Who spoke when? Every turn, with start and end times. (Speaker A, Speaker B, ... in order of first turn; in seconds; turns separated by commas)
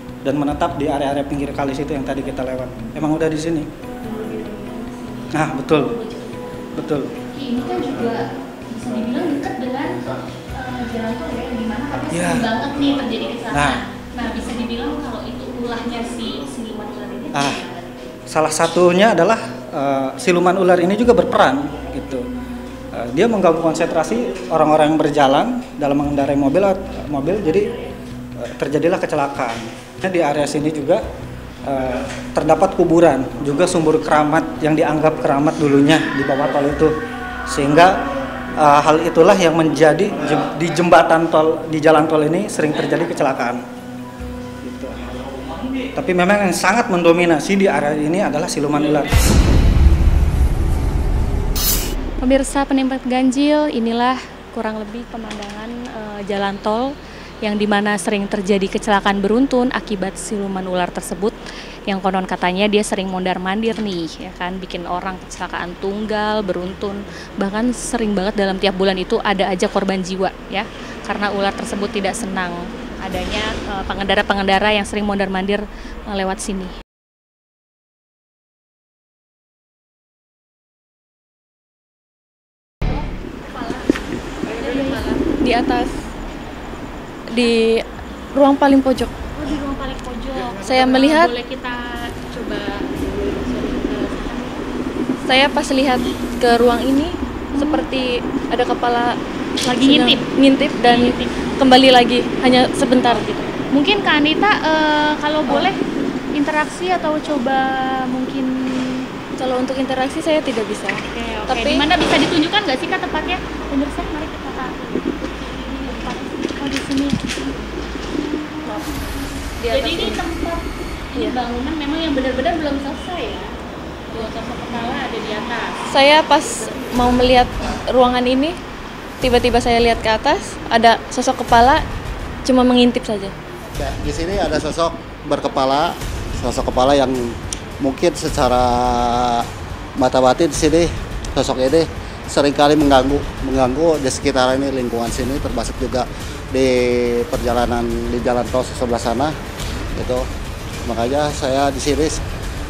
Speaker A: 0.2-3.7, Speaker B: 4.0-18.1, Speaker A: 5.3-5.9, Speaker A: 6.7-7.2, Speaker A: 12.1-12.6, Speaker A: 13.5-13.8, Speaker A: 17.3-17.6, Speaker A: 18.3-22.3, Speaker A: 22.9-27.7, Speaker B: 27.3-28.0, Speaker A: 28.4-31.0, Speaker A: 31.6-38.0, Speaker A: 38.5-43.6, Speaker A: 44.6-45.1, Speaker A: 45.7-49.2, Speaker B: 49.0-49.3, Speaker B: 52.2-56.9, Speaker B: 57.4-61.3, Speaker B: 61.9-76.7, Speaker B: 83.5-83.8, Speaker B: 84.5-85.3, Speaker C: 84.5-86.0, Speaker C: 87.3-89.2, Speaker B: 89.3-94.6, Speaker C: 90.7-91.3, Speaker C: 95.2-103.5, Speaker B: 97.5-98.0, Speaker B: 99.7-100.3, Speaker B: 100.8-101.4, Speaker B: 103.0-105.8, Speaker B: 106.3-109.1, Speaker C: 109.4-111.8, Speaker B: 111.0-117.6, Speaker C: 118.7-119.0, Speaker C: 119.6-120.2, Speaker B: 119.6-123.5, Speaker B: 124.1-125.8, Speaker C: 125.9-128.6, Speaker C: 129.2-131.8, Speaker C: 132.4-133.3, Speaker D: 133.8-149.3, Speaker D: 149.9-150.3, Speaker D: 150.8-152.2